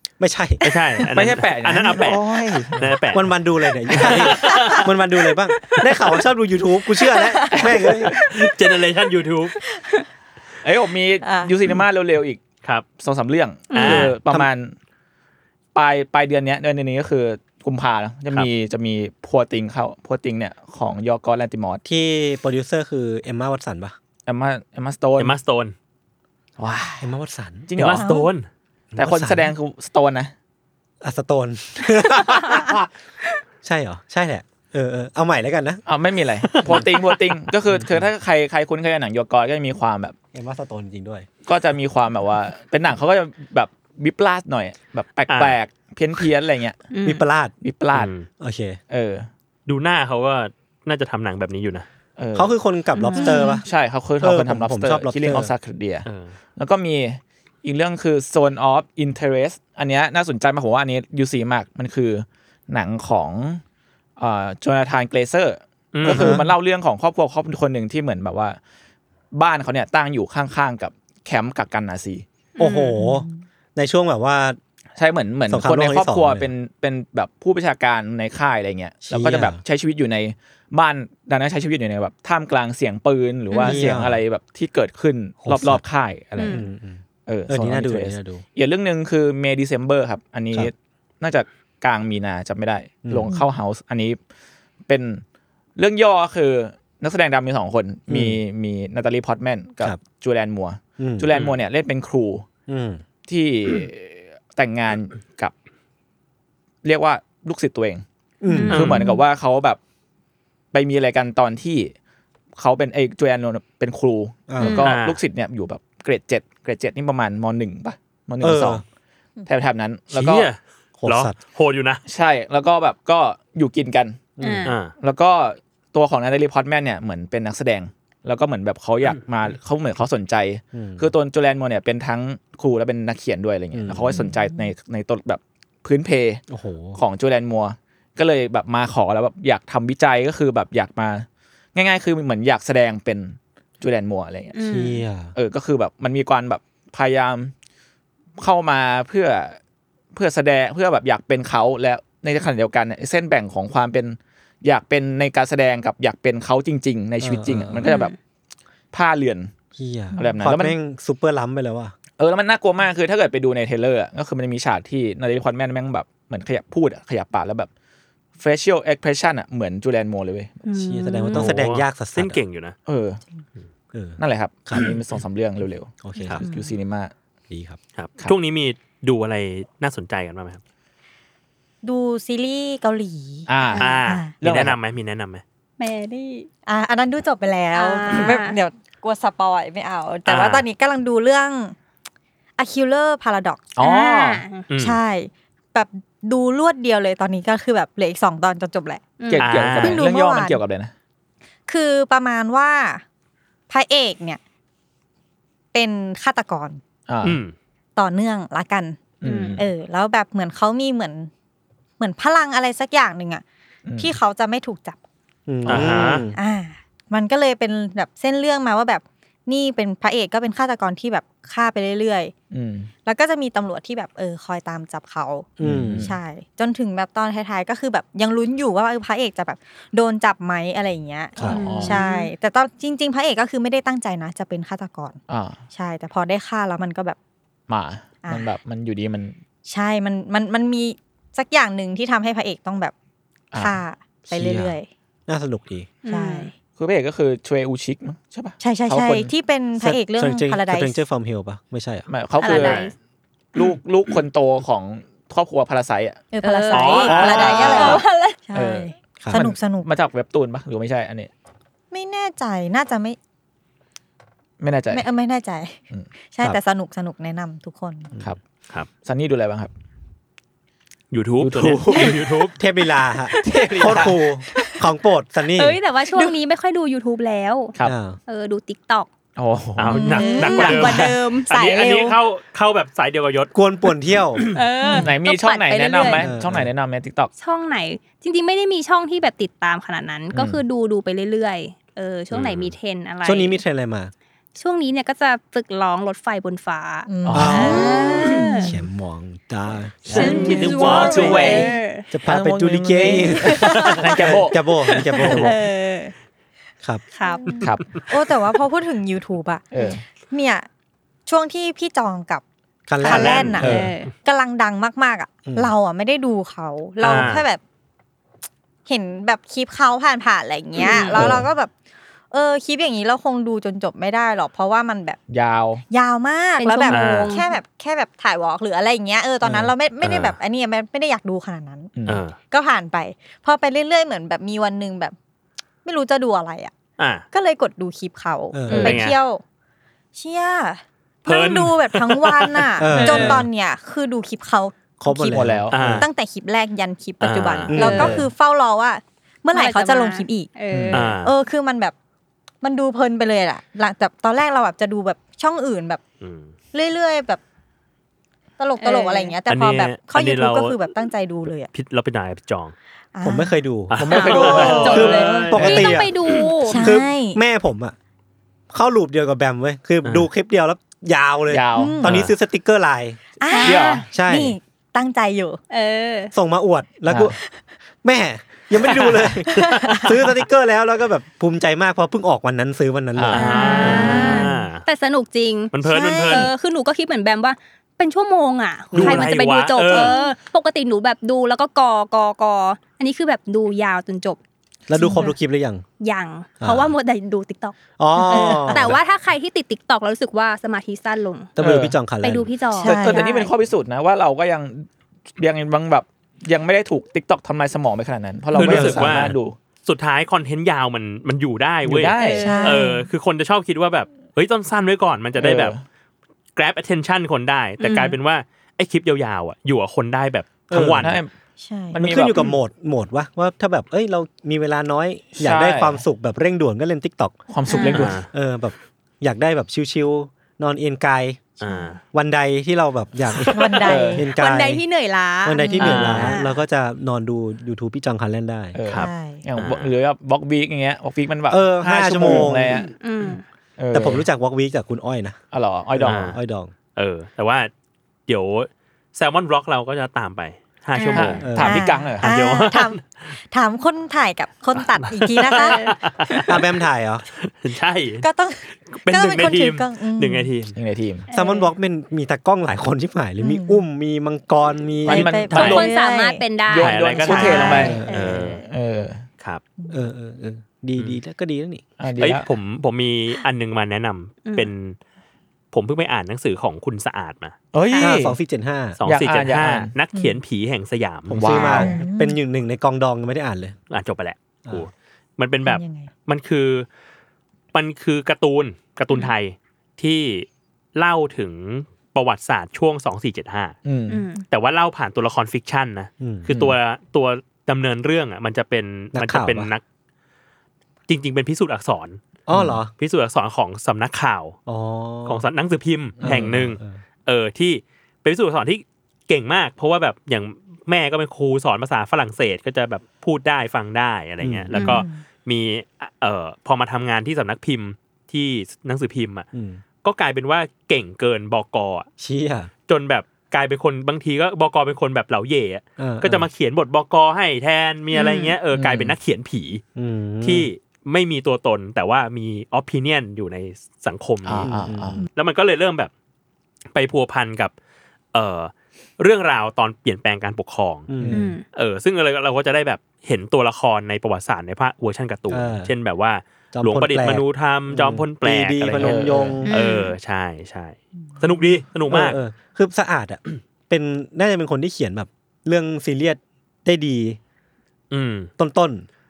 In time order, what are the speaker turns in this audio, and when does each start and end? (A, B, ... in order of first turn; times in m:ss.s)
0:00.2-0:00.7 A
0:00.6-0:03.3 B
0:01.1-0:03.0 C
0:03.1-0:08.1 A
0:03.9-0:04.9 B
0:03.9-0:04.2 C
0:07.1-0:07.8 D
0:07.5-0:08.1 C
0:08.1-0:09.6 B
0:10.6-0:12.4 C
0:11.2-0:11.6 D
0:13.0-0:14.8 C
0:13.7-0:14.1 E
0:13.7-0:14.2 B
0:15.7-0:21.8 C
0:21.8-0:24.0 A
0:24.3-0:25.4 C
0:25.2-0:25.7 B
0:26.6-0:27.1 C
0:27.0-0:27.7 A
0:27.7-0:28.1 C
0:27.8-0:28.5 B
0:27.8-0:28.3 D
0:28.9-0:29.5 A
0:29.0-0:30.3 C
0:31.0-0:32.8 A
0:33.6-0:35.8 A
0:35.9-0:40.2 C
0:36.5-0:37.2 B
0:40.3-0:41.3 A
0:41.5-0:46.8 C
0:45.3-0:45.6 B
0:46.9-0:47.2 E
0:47.0-0:47.5 A
0:47.6-0:48.1 C
0:47.9-0:48.3 B
0:48.4-0:48.8 A
0:48.9-0:49.3 C
0:49.7-0:51.9 B
0:52.2-0:52.6 C
0:52.4-0:53.7 A
0:52.9-0:53.6 E
0:53.2-0:53.6 D
0:53.6-1:03.6 C
0:54.2-0:55.5 A
0:56.1-0:56.3 B
1:04.2-1:08.6 C
1:05.9-1:06.4 B
1:06.1-1:06.5 A
1:09.3-1:12.2 C
1:12.6-1:14.6 A
1:12.6-1:13.0 E
1:13.0-1:13.3 D
1:15.0-1:26.6 C
1:15.5-1:16.5 A
1:19.1-1:19.6 A
1:23.5-1:23.8 E
1:23.6-1:24.2 A
1:25.4-1:25.8 A
1:26.4-1:26.6 E
1:26.4-1:28.4 A
1:27.3-1:34.2 C
1:33.0-1:33.3 A
1:34.9-1:35.2 C
1:35.8-1:42.5 C
1:38.1-1:38.4 A
1:41.0-1:41.3 A
1:41.3-1:41.6 B
1:42.7-1:43.0 A
1:43.3-1:45.5 C
1:46.8-1:48.0 C
1:48.4-1:48.7 A
1:48.5-1:49.2 E
1:48.5-1:49.2 D
1:48.7-1:49.1 B
1:48.7-1:49.8 C
1:50.7-1:51.9 C
1:52.6-1:58.8 C
1:54.5-1:54.9 A
1:54.6-1:54.9 E
1:54.8-1:55.2 B
1:58.4-1:58.8 A
1:59.5-2:00.5 C
2:00.1-2:02.0 B
2:01.0-2:01.4 A
2:02.1-2:04.2 C
2:04.4-2:04.7 A
2:04.4-2:04.8 E
2:04.6-2:04.9 B
2:05.0-2:16.4 C
2:10.7-2:11.1 A
2:13.7-2:14.3 A
2:16.5-2:17.0 A
2:17.0-2:24.5 C
2:24.5-2:25.0 E
2:24.6-2:25.3 A
2:25.4-2:27.5 C
2:28.4-2:29.6 C
2:30.1-2:38.2 C
2:37.2-2:37.9 A
2:37.8-2:38.1 E
2:38.9-2:39.5 C
2:39.8-2:41.9 A
2:40.2-2:40.8 C
2:42.2-2:47.7 C
2:48.4-2:50.6 C
2:50.7-2:51.5 E
2:50.7-2:52.4 A
2:51.3-2:52.8 B
2:52.9-2:53.2 C
2:53.9-2:54.9 A
2:54.2-2:57.1 C
2:56.0-2:56.5 A
2:56.4-2:56.7 D
2:57.5-2:57.8 A
2:58.0-3:00.6 B
3:01.8-3:03.5 D
3:03.5-3:04.8 C
3:03.7-3:04.0 E
3:03.8-3:05.4 B
3:04.0-3:04.3 D
3:05.8-3:06.5 E
3:06.7-3:11.8 D
3:07.8-3:08.6 E
3:10.3-3:10.7 B
3:12.6-3:13.8 D
3:13.8-3:14.4 C
3:13.8-3:14.6 E
3:14.7-3:15.0 B
3:14.8-3:19.1 D
3:19.2-3:19.5 E
3:19.3-3:20.9 C
3:19.4-3:20.0 B
3:19.8-3:20.6 D
3:21.7-3:23.0 D
3:23.7-3:24.4 D
3:25.7-3:26.8 D
3:27.1-3:27.4 C
3:27.2-3:27.5 B
3:28.0-3:29.1 D
3:29.2-3:29.7 C
3:29.2-3:29.6 E
3:29.6-3:31.3 D
3:32.0-3:33.4 D
3:33.9-3:34.1 C
3:34.0-3:35.0 D
3:35.5-3:36.4 A
3:35.7-3:36.1 C
3:35.7-3:36.2 B
3:36.3-3:42.3 D
3:42.5-3:42.9 C
3:43.0-3:55.2 D
3:45.6-3:46.1 A
3:45.6-3:46.2 C
3:51.4-3:51.6 A
3:51.4-3:52.0 C
3:51.5-3:52.3 E
3:55.3-3:55.6 C
3:55.7-3:57.2 D
3:57.7-3:59.4 C
3:58.2-3:58.5 D
3:59.7-4:02.9 D
4:03.5-4:03.8 C
4:03.6-4:04.9 D
4:04.3-4:04.8 A
4:05.3-4:05.9 A
4:06.0-4:06.5 E
4:06.1-4:06.5 D
4:06.8-4:09.3 C
4:08.6-4:11.0 D
4:09.8-4:12.1 A
4:12.1-4:12.9 C
4:12.4-4:12.9 E
4:13.6-4:16.2 C
4:16.3-4:19.9 D
4:16.4-4:18.4 E
4:16.7-4:17.7 B
4:17.0-4:21.3 C
4:19.2-4:19.5 A
4:21.9-4:23.2 D
4:24.6-4:25.0 C
4:24.9-4:28.1 D
4:29.0-4:29.7 C
4:31.1-4:32.6 B
4:31.4-4:32.2 C
4:32.6-4:36.3 A
4:33.3-4:34.0 E
4:33.4-4:34.2 C
4:34.6-4:34.8 E
4:35.6-4:37.8 E
4:37.8-4:38.2 A
4:38.3-4:39.1 E
4:39.4-4:41.2 C
4:39.8-4:43.5 B
4:39.9-4:41.5 E
4:39.9-4:40.8 D
4:41.5-4:42.2 D
4:43.5-4:44.4 A
4:44.5-4:46.3 E
4:44.8-4:45.1 D
4:45.0-4:47.3 C
4:46.0-4:46.7 A
4:47.4-4:53.6 E
4:50.3-4:50.6 C
4:52.3-4:52.7 B
4:53.2-4:54.1 A
4:54.6-4:58.7 E
4:57.1-4:58.9 D
4:57.2-4:57.9 C
4:57.3-5:05.6 A
5:00.1-5:01.7 C
5:00.1-5:01.7 D
5:00.1-5:02.1 E
5:02.3-5:04.6 C
5:03.3-5:04.0 E
5:03.7-5:04.0 D
5:04.8-5:06.1 E
5:05.2-5:05.5 B
5:07.2-5:07.5 E
5:07.2-5:10.7 D
5:07.6-5:08.0 C
5:09.7-5:10.0 C
5:11.3-5:12.4 D
5:12.9-5:13.9 A
5:13.0-5:13.7 D
5:13.0-5:13.8 B
5:13.6-5:14.1 E
5:14.2-5:17.6 D
5:15.5-5:15.7 A
5:17.0-5:17.5 B
5:18.9-5:21.7 D
5:20.8-5:21.3 E
5:22.3-5:25.2 D
5:25.3-5:25.8 C
5:25.9-5:31.9 D
5:26.6-5:27.5 E
5:26.9-5:27.3 B
5:30.0-5:30.4 B
5:32.0-5:32.3 C
5:32.1-5:32.4 B
5:32.4-5:35.2 D
5:35.8-5:36.7 D
5:37.0-5:37.2 B
5:37.3-5:39.4 D
5:38.5-5:39.0 A
5:38.7-5:39.0 C
5:38.7-5:39.2 B
5:40.2-5:50.5 D
5:41.3-5:42.7 B
5:42.8-5:43.5 A
5:42.9-5:43.4 C
5:45.0-5:46.0 A
5:45.3-5:46.0 C
5:45.7-5:46.1 B
5:47.2-5:48.1 B
5:47.7-5:48.3 A
5:47.8-5:48.3 C
5:49.5-5:51.1 E
5:50.7-5:51.1 C
5:50.9-5:51.3 B
5:51.2-5:52.0 D
5:52.6-5:56.0 D
5:56.2-5:56.5 B
5:56.7-5:57.4 D
5:58.6-6:01.7 D
5:58.8-5:59.3 E
5:59.5-6:00.8 B
6:01.7-6:02.7 B
6:03.2-6:03.6 D
6:03.2-6:04.0 A
6:03.9-6:06.5 B
6:04.0-6:05.5 C
6:04.1-6:06.8 E
6:04.3-6:05.9 D
6:04.9-6:06.2 A
6:06.7-6:07.4 D
6:06.7-6:08.0 A
6:08.7-6:13.2 A
6:10.0-6:10.3 B
6:11.5-6:12.0 C
6:11.8-6:12.1 D
6:12.0-6:12.3 B
6:13.4-6:15.6 D
6:13.5-6:14.0 E
6:13.6-6:14.1 C
6:14.1-6:14.6 A
6:15.7-6:16.3 E
6:16.3-6:17.4 A
6:17.1-6:17.3 C
6:18.0-6:24.3 A
6:18.8-6:19.2 C
6:19.5-6:20.1 D
6:19.6-6:20.0 B
6:23.2-6:23.4 C
6:23.3-6:25.7 E
6:23.4-6:24.6 D
6:23.6-6:24.8 B
6:25.7-6:26.5 B
6:25.8-6:26.5 D
6:26.3-6:34.4 E
6:28.9-6:29.3 C
6:29.0-6:30.2 B
6:29.9-6:30.3 D
6:34.9-6:35.8 A
6:34.9-6:35.4 D
6:36.0-6:37.8 E
6:36.6-6:37.0 A
6:38.0-6:39.0 A
6:38.3-6:38.8 D
6:38.3-6:41.5 E
6:41.6-6:42.5 A
6:41.6-6:42.0 C
6:42.2-6:43.0 E
6:42.8-6:43.5 D
6:42.8-6:49.6 C
6:48.5-6:55.8 B
6:48.6-6:49.3 A
6:51.8-6:52.6 C
6:52.2-6:52.9 E
6:52.3-6:53.1 D
6:55.4-6:55.8 C
6:56.6-7:01.2 B
6:57.8-6:58.2 E
7:00.7-7:01.2 A
7:01.0-7:01.3 C
7:01.6-7:02.0 D
7:01.9-7:02.6 C
7:02.0-7:07.4 A
7:05.4-7:06.0 C
7:07.5-7:08.3 C
7:07.7-7:08.2 E
7:07.8-7:08.3 B
7:08.3-7:11.5 A
7:11.6-7:12.0 B
7:11.7-7:11.9 D
7:12.1-7:14.8 A
7:13.4-7:13.8 B
7:13.5-7:14.3 D
7:13.8-7:14.2 C
7:14.4-7:15.8 E
7:15.4-7:18.8 A
7:15.6-7:16.6 D
7:15.8-7:16.4 B
7:18.8-7:22.9 C
7:18.9-7:19.9 B
7:18.9-7:19.4 D
7:21.5-7:22.9 A
7:23.0-7:23.4 E
7:23.8-7:24.2 C
7:23.9-7:25.4 A
7:25.5-7:26.3 C
7:26.0-7:26.7 A
7:26.1-7:26.4 B
7:27.0-7:27.7 B
7:28.3-7:31.5 B
7:30.9-7:31.4 E
7:31.1-7:32.3 C
7:31.4-7:31.8 A
7:31.6-7:36.4 D
7:32.2-7:33.0 B
7:34.8-7:36.6 B
7:35.6-7:35.9 E
7:36.5-7:37.2 A
7:37.4-7:38.3 B
7:38.2-7:40.5 D
7:38.9-7:40.7 B
7:40.8-7:41.3 C
7:41.3-7:41.7 E
7:41.3-7:45.5 A
7:43.4-7:43.8 D
7:45.0-7:45.9 C
7:45.1-7:46.5 D
7:45.5-7:48.6 E
7:45.5-7:45.9 B
7:46.7-7:48.0 C
7:46.7-7:48.6 B
7:47.3-7:48.1 A
7:47.4-7:48.0 D
7:48.5-7:49.2 C
7:49.9-7:51.9 A
7:52.0-7:52.5 C
7:52.2-7:55.0 B
7:54.4-7:54.7 E
7:55.7-7:57.6 B
7:57.7-7:58.4 C
7:58.0-7:59.0 A
7:59.0-8:01.9 B
7:59.0-7:59.9 C
8:01.3-8:03.8 A
8:01.3-8:01.9 C
8:01.6-8:02.4 D
8:03.9-8:06.9 B
8:05.6-8:06.1 D
8:07.7-8:13.8 B
8:13.8-8:14.2 C
8:14.1-8:14.4 E
8:14.5-8:19.8 B
8:16.2-8:16.5 A
8:16.5-8:16.8 C
8:19.1-8:19.7 A
8:21.1-8:22.2 B
8:22.5-8:22.9 A
8:22.5-8:22.8 C
8:22.9-8:24.6 B
8:24.7-8:25.4 A
8:25.3-8:39.5 B
8:26.2-8:26.5 C
8:26.2-8:27.0 A
8:34.4-8:35.0 A
8:34.7-8:35.2 D
8:34.8-8:35.0 E
8:39.5-8:39.8 A
8:40.0-8:42.1 B
8:42.2-8:42.7 A
8:42.9-8:49.8 B
8:46.0-8:46.5 A
8:48.1-8:48.6 E
8:48.7-8:49.1 C
8:50.0-8:50.7 A
8:50.4-8:54.7 B
8:54.4-8:55.2 C
8:54.6-8:55.2 A
8:55.2-8:56.1 B
8:56.9-8:57.7 B
8:58.3-9:01.1 B
9:01.1-9:01.4 A
9:01.2-9:01.5 C
9:01.3-9:01.6 E
9:01.6-9:12.4 B
9:05.5-9:05.9 A
9:06.7-9:09.7 A
9:09.0-9:09.6 C
9:09.7-9:10.1 E
9:12.1-9:17.4 A
9:18.1-9:18.5 B
9:18.6-9:19.1 A